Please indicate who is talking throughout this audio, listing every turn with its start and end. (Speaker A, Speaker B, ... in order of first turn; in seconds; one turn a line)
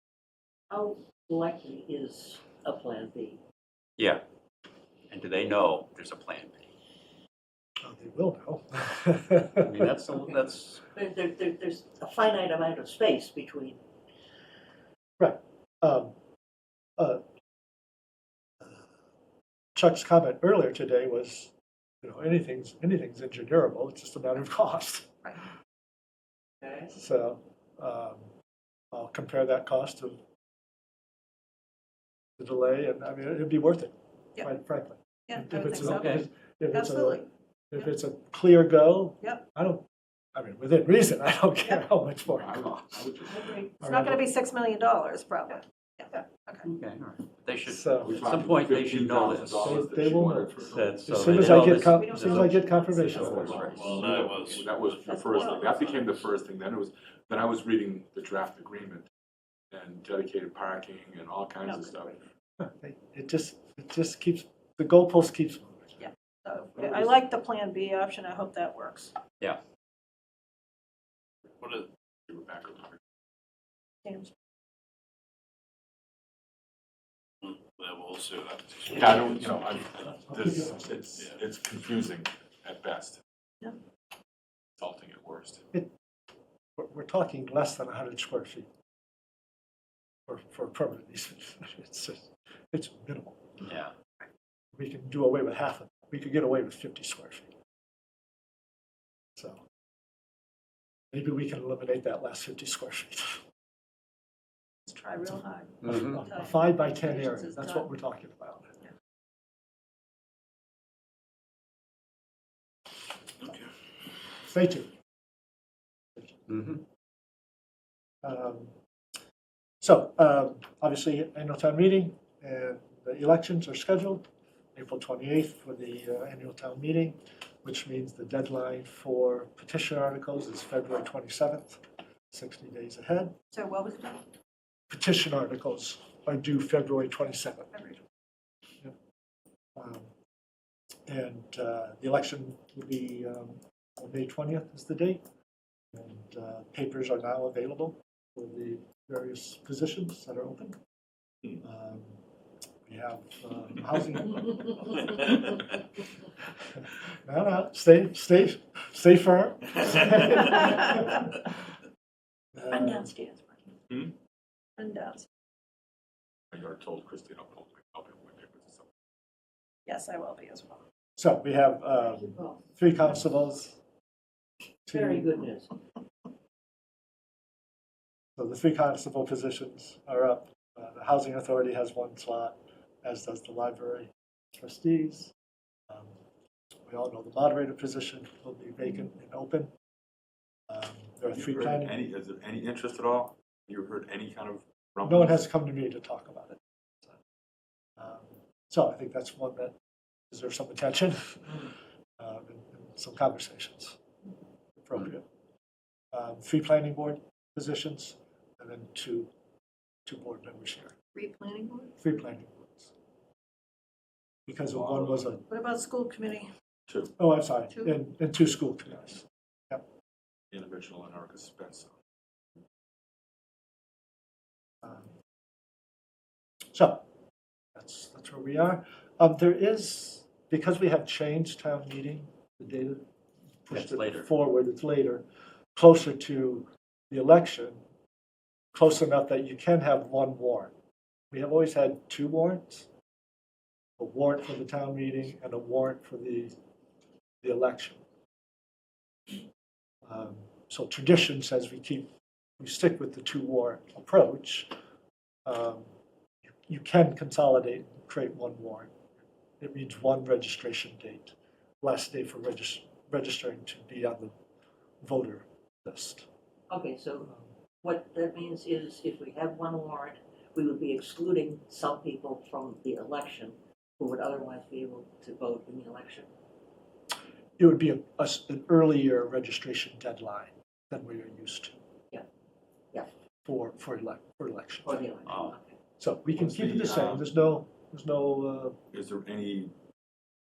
Speaker A: 0.7-3.4
Speaker B: 4.0-4.2
Speaker B: 5.1-6.7
Speaker C: 7.8-9.7
Speaker B: 9.5-10.8
Speaker A: 10.1-10.4
Speaker A: 10.9-13.8
Speaker C: 15.2-16.1
Speaker C: 19.7-25.4
Speaker A: 26.6-26.9
Speaker C: 26.9-28.2
Speaker C: 28.9-30.2
Speaker C: 32.4-43.1
Speaker D: 35.3-37.9
Speaker B: 35.8-36.2
Speaker E: 42.4-43.6
Speaker A: 43.3-43.7
Speaker C: 43.8-44.2
Speaker D: 43.8-46.7
Speaker B: 46.6-49.9
Speaker C: 47.7-48.2
Speaker E: 48.0-51.4
Speaker C: 49.5-53.8
Speaker B: 50.6-54.3
Speaker D: 51.4-53.6
Speaker E: 53.2-59.0
Speaker F: 53.6-56.2
Speaker D: 55.1-55.7
Speaker E: 59.7-62.2
Speaker D: 61.6-61.9
Speaker C: 62.6-66.0
Speaker D: 66.0-69.1
Speaker F: 71.6-71.9
Speaker E: 72.3-73.0
Speaker D: 74.0-74.3
Speaker F: 77.4-79.6
Speaker E: 78.9-83.2
Speaker C: 80.3-80.8
Speaker E: 84.8-85.6
Speaker C: 86.8-88.7
Speaker C: 90.3-93.4
Speaker B: 93.7-93.9
Speaker C: 94.7-97.5
Speaker C: 101.1-103.4
Speaker D: 104.8-107.9
Speaker B: 105.8-106.1
Speaker C: 105.8-108.7
Speaker C: 114.4-114.9
Speaker C: 116.2-116.4
Speaker B: 116.5-116.8
Speaker C: 118.2-118.7
Speaker C: 119.8-133.3
Speaker D: 133.5-134.2
Speaker C: 134.9-137.7
Speaker D: 137.7-138.0
Speaker C: 139.8-140.1
Speaker C: 141.1-145.2
Speaker C: 145.9-150.8
Speaker C: 151.6-152.2
Speaker C: 152.8-155.4
Speaker C: 157.2-161.4
Speaker C: 162.5-163.1
Speaker D: 162.7-163.7
Speaker E: 163.9-164.1
Speaker D: 164.8-165.3
Speaker E: 166.5-168.8
Speaker D: 169.8-170.8
Speaker C: 171.2-173.8
Speaker A: 172.1-172.6
Speaker C: 174.8-175.4
Speaker A: 174.9-175.7
Speaker C: 178.4-185.3
Speaker C: 185.9-186.2
Speaker C: 186.8-189.7
Speaker C: 190.7-192.0
Speaker E: 191.3-195.4
Speaker C: 195.1-197.1
Speaker C: 198.0-199.8
Speaker C: 200.3-201.7
Speaker C: 202.2-204.0
Speaker C: 204.8-205.2
Speaker C: 206.1-209.3
Speaker C: 210.1-210.9
Speaker D: 211.1-211.9
Speaker C: 212.0-212.9
Speaker C: 214.5-215.4
Speaker E: 214.7-215.3
Speaker D: 215.5-216.5
Speaker E: 216.9-217.1
Speaker C: 217.2-219.8
Speaker D: 217.7-217.9
Speaker E: 220.5-221.9
Speaker C: 224.8-225.1
Speaker C: 226.7-227.1
Speaker C: 227.7-233.0
Speaker C: 233.6-235.2
Speaker B: 233.7-234.3
Speaker C: 235.7-237.8
Speaker C: 238.7-240.7
Speaker C: 241.3-242.9
Speaker C: 244.0-246.5
Speaker C: 247.4-248.0
Speaker C: 250.0-254.7
Speaker C: 255.4-255.9
Speaker C: 256.7-259.0
Speaker C: 259.6-264.3
Speaker C: 265.0-266.2
Speaker A: 266.7-267.3
Speaker A: 267.8-276.3
Speaker C: 277.6-281.8
Speaker C: 283.4-285.1
Speaker A: 284.8-285.8
Speaker B: 285.2-285.5
Speaker C: 286.0-288.8
Speaker E: 286.3-287.2
Speaker E: 288.9-289.7